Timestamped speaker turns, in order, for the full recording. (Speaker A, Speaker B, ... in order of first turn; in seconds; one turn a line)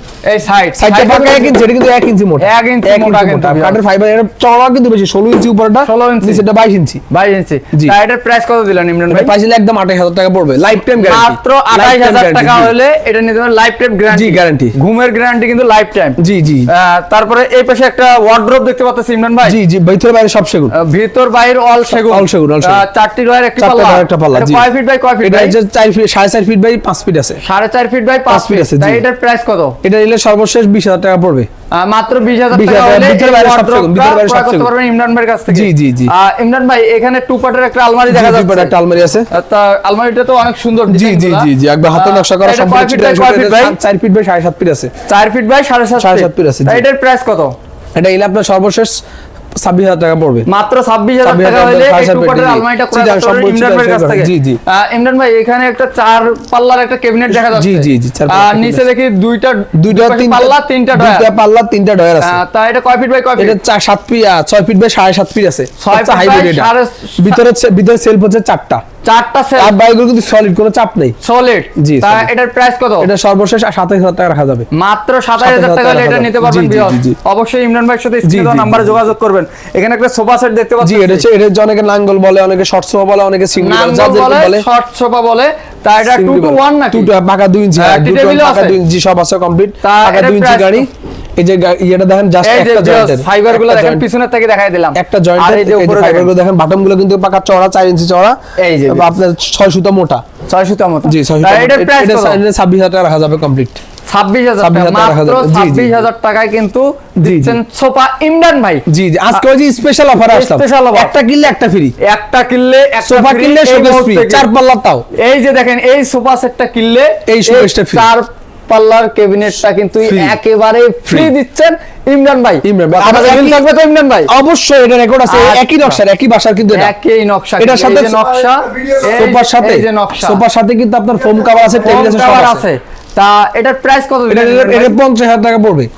Speaker A: 0.2-1.6
Speaker B: 0.8-7.0
Speaker A: 2.4-3.8
Speaker A: 5.8-6.4
Speaker A: 7.1-9.3
Speaker B: 9.1-12.7
Speaker A: 11.0-19.6
Speaker B: 14.1-14.7
Speaker B: 16.2-16.7
Speaker B: 19.4-20.7
Speaker A: 20.7-25.5
Speaker B: 21.9-22.8
Speaker B: 23.6-24.7
Speaker B: 25.2-27.4
Speaker A: 27.4-29.8
Speaker B: 28.3-29.0
Speaker B: 29.8-31.5
Speaker A: 31.7-38.7
Speaker B: 32.5-34.7
Speaker B: 35.5-36.1
Speaker B: 38.1-39.3
Speaker A: 39.3-43.8
Speaker B: 40.9-44.9
Speaker A: 45.1-47.5
Speaker B: 46.0-46.8
Speaker B: 47.9-49.0
Speaker B: 49.6-50.5
Speaker A: 50.5-61.3
Speaker B: 51.2-54.6
Speaker B: 57.3-58.9
Speaker B: 59.7-62.4
Speaker A: 62.2-63.6
Speaker B: 63.4-68.8
Speaker A: 65.8-67.4
Speaker A: 69.0-69.7
Speaker B: 69.6-71.2
Speaker A: 71.2-73.1
Speaker B: 71.8-72.3
Speaker B: 73.0-74.7
Speaker A: 74.7-81.3
Speaker B: 75.4-77.2
Speaker B: 78.2-79.0
Speaker B: 80.8-84.7
Speaker A: 83.5-87.1
Speaker B: 86.0-94.0
Speaker A: 87.8-88.8
Speaker A: 89.8-90.9
Speaker A: 92.4-96.3
Speaker B: 94.9-100.2
Speaker A: 98.6-99.0
Speaker A: 100.5-102.4
Speaker B: 101.0-103.8
Speaker A: 104.1-109.4
Speaker B: 104.6-106.0
Speaker B: 107.2-107.6
Speaker B: 108.9-111.9
Speaker A: 110.2-111.1
Speaker A: 112.0-114.5
Speaker B: 113.0-115.0
Speaker A: 115.2-124.3
Speaker B: 117.3-118.1
Speaker B: 120.0-120.4
Speaker B: 121.1-121.3
Speaker B: 122.6-123.7
Speaker B: 124.3-126.9
Speaker A: 125.3-126.0
Speaker A: 126.7-130.4
Speaker B: 127.6-128.3
Speaker B: 129.0-132.6
Speaker A: 131.8-135.0
Speaker B: 134.3-135.9